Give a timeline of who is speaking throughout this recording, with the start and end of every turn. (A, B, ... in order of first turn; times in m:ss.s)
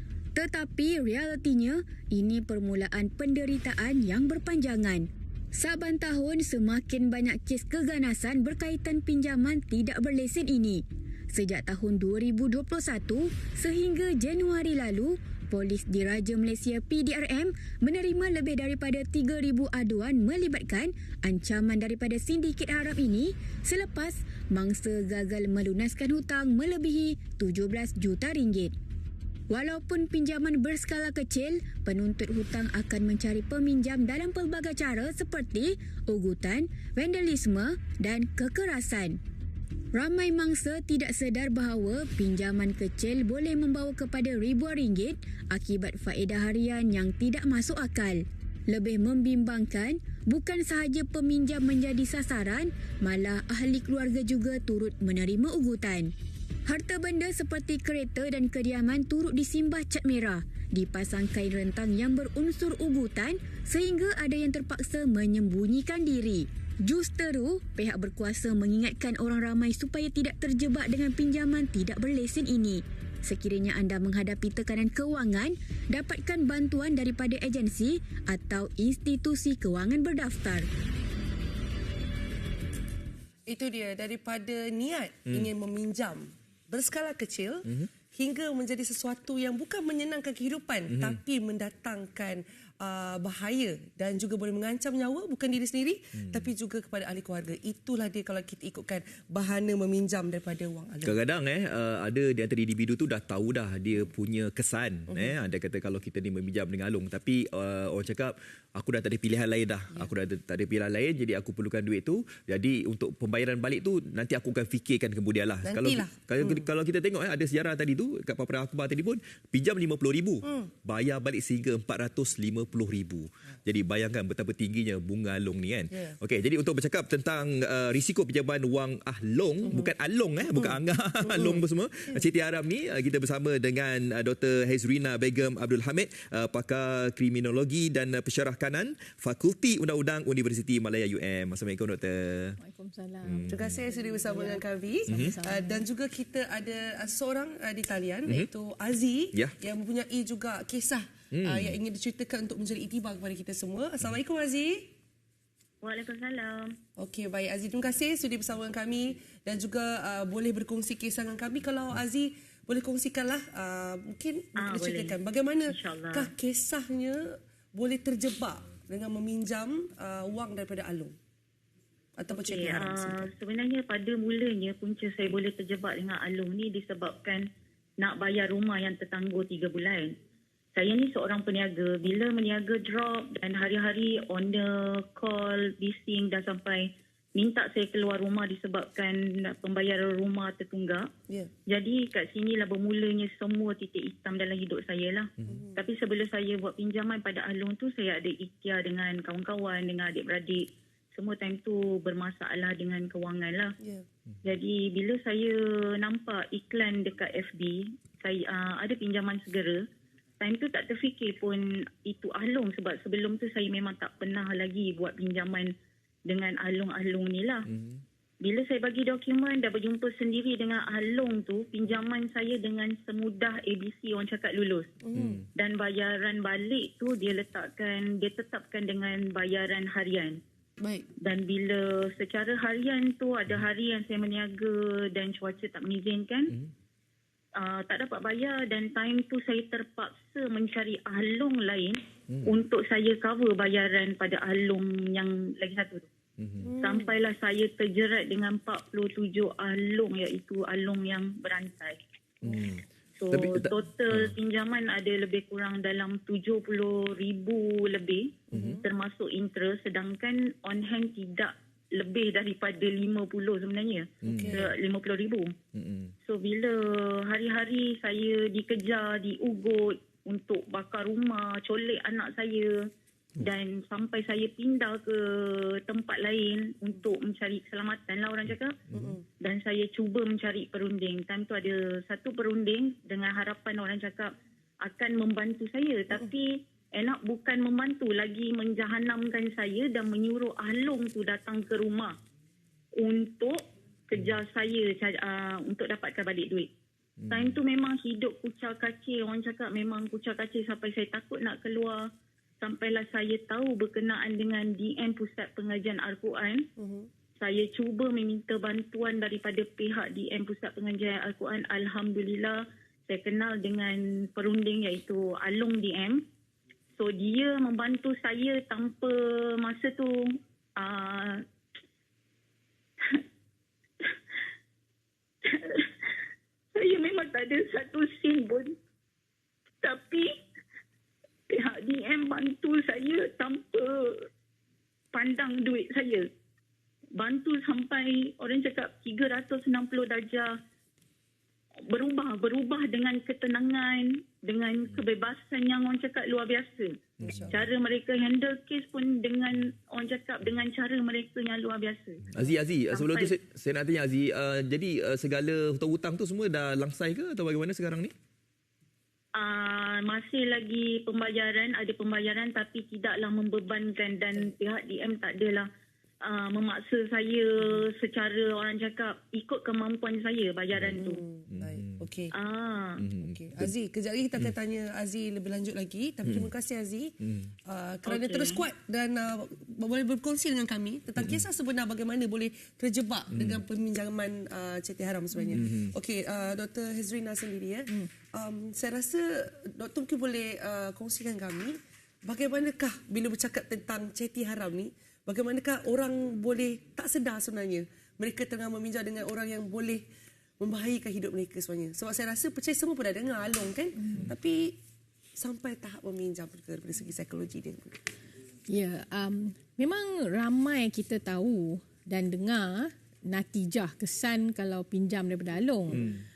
0:00.3-0:28.7 A
0:29.5-0:39.2 A
0:39.9-0:56.1 A
0:56.6-1:20.7 A
1:23.5-1:41.2 B
1:30.9-1:31.2 C
1:41.0-2:22.6 C
1:45.1-1:45.3 B
1:55.6-1:56.7 B
2:00.4-2:00.7 B
2:09.6-2:09.9 B
2:11.2-2:11.6 B
2:22.6-2:25.8 D
2:23.2-2:23.8 C
2:23.5-2:34.9 B
2:25.1-2:25.3 C
2:31.3-2:31.8 C
2:35.8-2:36.7 E
2:37.0-2:51.1 B
2:44.6-2:45.2 E
2:45.7-2:46.3 E
2:52.2-2:53.3 B
2:52.3-2:57.4 E
2:58.0-3:00.1 E
3:00.7-3:11.1 E
3:11.7-3:23.7 E
3:15.5-3:15.8 B
3:24.4-3:29.8 E
3:30.4-3:35.7 E
3:36.2-3:37.7 E
3:37.7-3:38.0 C
3:38.4-3:44.9 E
3:45.0-3:45.4 B
3:45.1-3:45.4 C
3:45.5-3:50.4 E
3:50.8-3:51.1 B
3:51.2-3:56.6 E
3:57.6-4:06.1 E
4:02.3-4:02.5 C
4:06.4-4:06.7 C
4:06.6-4:07.1 B
4:06.8-4:12.0 E
4:12.4-4:14.3 C
4:13.2-4:25.5 E
4:18.5-4:18.8 B
4:18.5-4:18.8 C
4:24.2-4:24.6 C
4:24.2-4:24.7 B
4:25.7-4:26.1 C
4:26.2-4:32.7 E
4:33.4-4:38.8 E
4:38.9-4:39.1 C
4:38.9-4:39.2 B
4:39.4-4:44.3 E
4:44.8-4:52.1 E
4:53.0-4:56.7 E
4:57.2-4:57.6 C
4:57.3-5:02.0 E
5:02.6-5:06.7 E
5:06.8-5:07.1 B
5:07.4-5:16.2 E
5:17.0-5:20.2 E
5:20.8-5:21.4 E
5:25.4-5:26.2 E
5:26.7-5:28.7 E
5:29.8-5:30.3 E
5:31.5-5:34.2 E
5:35.1-5:36.3 E
5:37.2-5:40.5 E
5:41.9-5:47.0 E
5:47.2-5:47.6 C
5:47.2-5:47.6 B
5:47.5-5:53.3 E
5:52.3-5:58.1 C
5:59.4-6:05.7 E
6:06.2-6:11.2 E
6:11.0-6:12.3 B
6:11.5-6:12.0 C
6:12.3-6:13.0 E
6:13.0-6:13.7 C
6:13.2-6:40.0 B
6:17.2-6:17.5 C
6:18.0-6:18.6 E
6:23.3-6:23.6 C
6:25.5-6:25.9 C
6:40.6-6:44.8 B
6:45.4-6:48.0 B
6:48.7-6:56.1 D
6:56.0-6:56.2 C